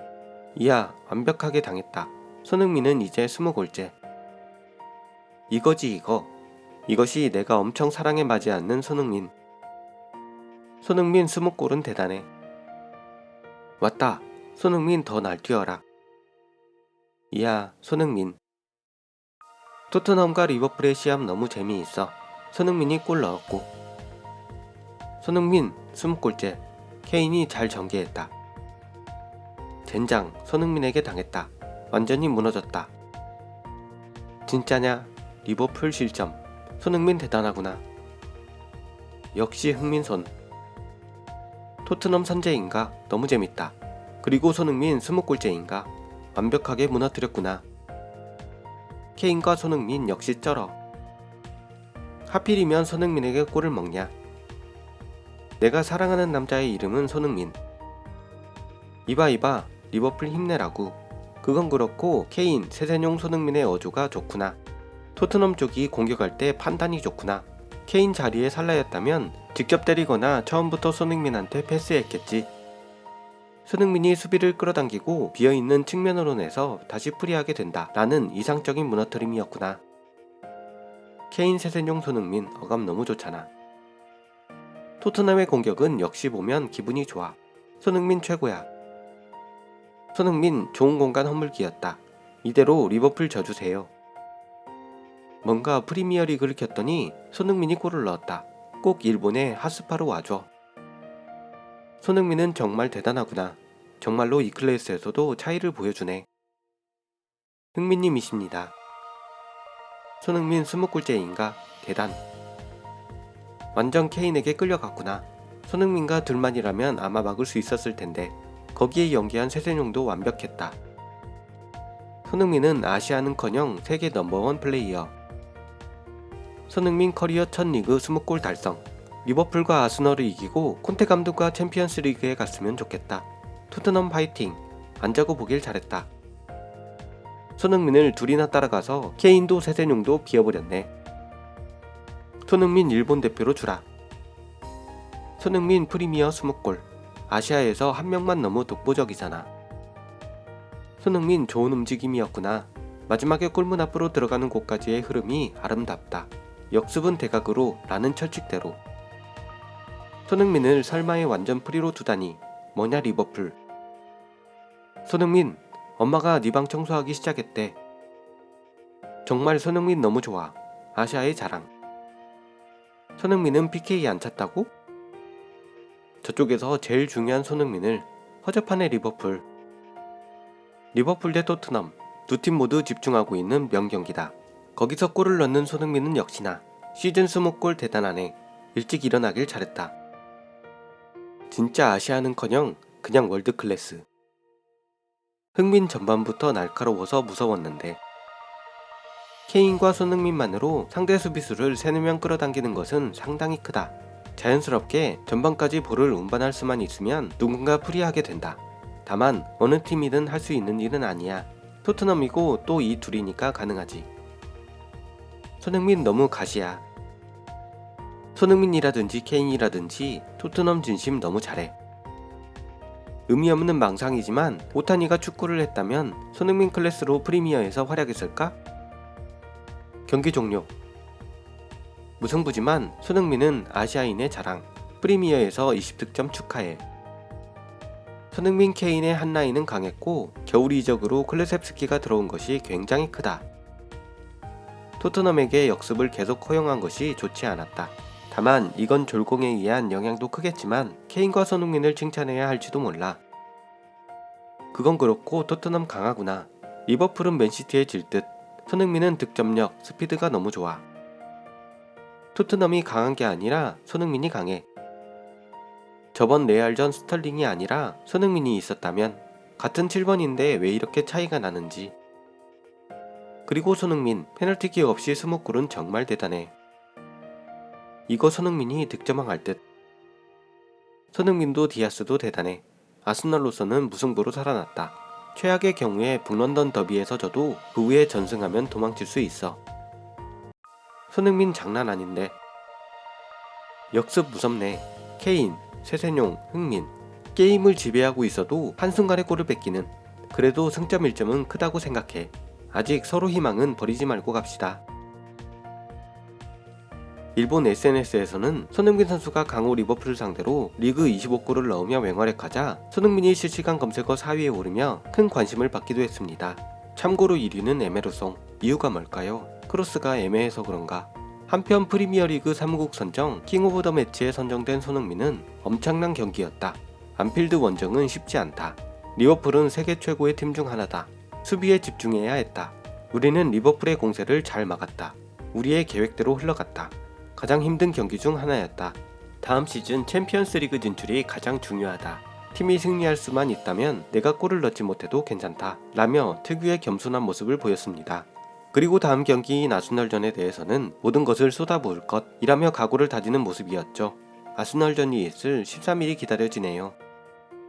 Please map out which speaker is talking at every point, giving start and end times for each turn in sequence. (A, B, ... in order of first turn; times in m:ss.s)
0:00.6-0:03.9 A
0:05.5-0:06.3 A
0:06.9-0:09.3 A
0:10.8-0:12.3 A
0:13.8-0:15.8 A
0:17.3-0:18.4 A
0:19.9-0:23.7 A
0:25.2-0:28.3 A
0:29.8-0:32.9 A
0:34.5-0:37.8 A
0:39.3-0:40.3 A
0:41.8-0:47.6 A
0:49.2-0:50.8 A
0:52.3-0:54.1 A
0:55.6-0:57.6 A
0:59.1-1:04.6 A
1:05.2-1:12.5 A
1:13.6-1:19.8 A
1:21.3-1:23.5 A
1:25.0-1:28.7 A
1:30.1-1:33.9 A
1:35.4-1:40.5 A
1:42.0-1:46.3 A
1:47.8-1:48.7 A
1:50.2-1:52.2 A
1:53.7-2:00.8 A
2:02.3-2:05.1 A
2:06.7-2:16.1 A
2:17.6-2:20.9 A
2:22.4-2:23.8 A
2:25.4-2:29.5 A
2:31.0-2:38.8 A
2:40.3-2:43.6 A
2:45.0-2:47.8 A
2:49.3-2:51.7 A
2:53.2-2:54.7 A
2:56.2-2:59.4 A
3:00.9-3:09.9 A
3:11.5-3:14.0 A
3:15.6-3:18.0 A
3:19.5-3:34.1 A
3:35.6-3:36.8 A
3:38.4-3:41.7 A
3:43.3-3:48.6 A
3:50.1-3:50.7 A
3:52.2-3:56.8 A
3:58.3-4:03.4 A
4:05.0-4:13.2 A
4:14.7-4:20.8 A
4:22.3-4:24.6 A
4:26.1-4:31.9 A
4:33.5-4:36.5 A
4:38.1-4:39.6 A
4:41.1-4:49.6 A
4:51.1-4:52.3 A
4:53.9-5:04.8 A
5:07.4-5:57.0 A